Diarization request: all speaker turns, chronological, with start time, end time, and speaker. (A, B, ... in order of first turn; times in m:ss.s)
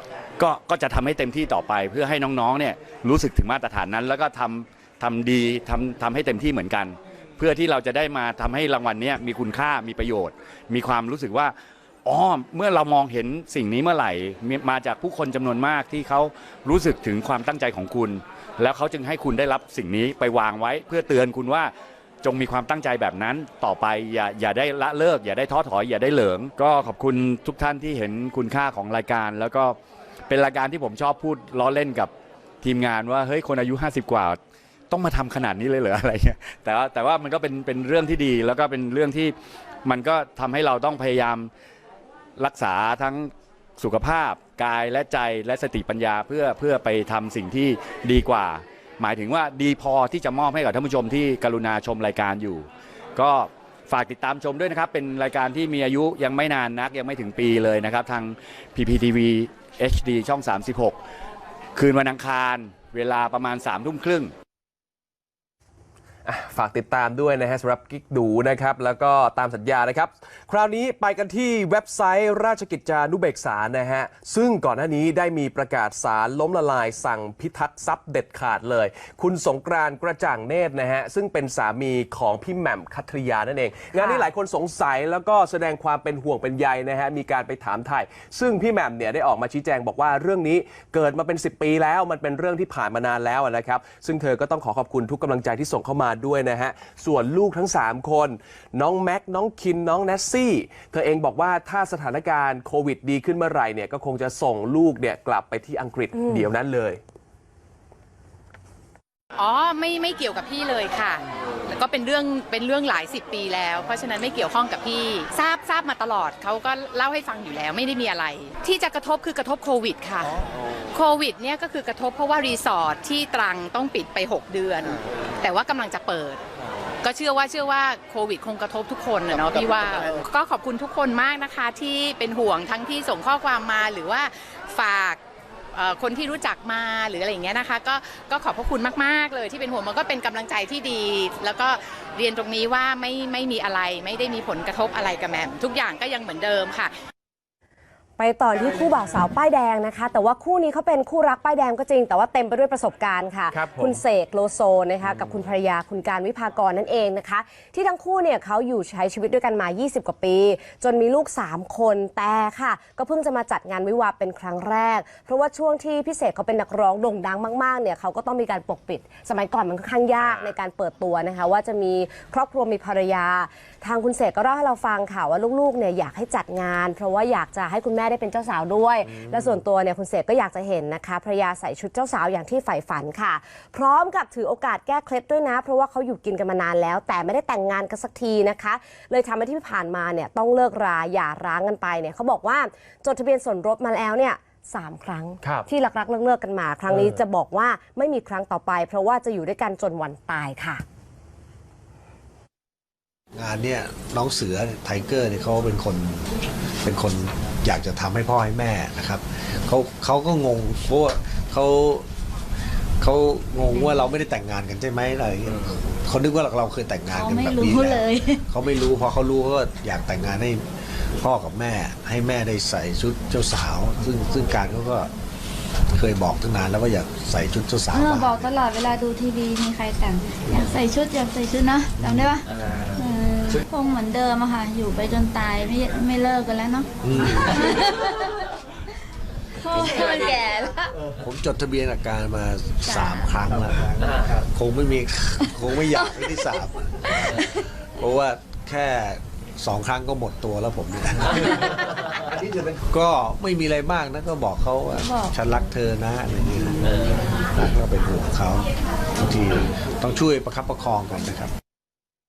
0:00.4-0:11.5 A
0:12.0-0:21.7 A
0:22.2-0:29.8 A
0:30.3-0:32.1 A
0:32.6-0:34.4 A
0:34.9-0:39.3 A
0:39.8-0:41.5 A
0:42.4-1:01.0 A
1:01.8-1:04.3 A
1:06.2-1:47.0 B
1:23.9-1:24.3 C
1:49.4-2:00.4 D
2:00.9-2:06.4 D
2:07.0-2:15.2 D
2:15.7-2:26.9 D
2:28.2-3:20.8 C
2:33.5-2:34.0 B
3:15.4-3:15.7 B
3:16.9-3:17.1 B
3:23.3-3:32.1 E
3:33.0-3:40.6 E
3:33.7-3:34.1 F
3:37.1-3:38.4 F
3:41.2-3:45.1 E
3:45.9-3:48.5 E
3:47.9-3:58.3 F
3:52.0-3:52.3 E
3:57.0-3:57.7 E
3:59.6-4:00.9 F
4:01.2-4:07.4 E
4:02.8-4:03.4 F
4:08.0-4:21.5 E
4:15.0-4:15.7 F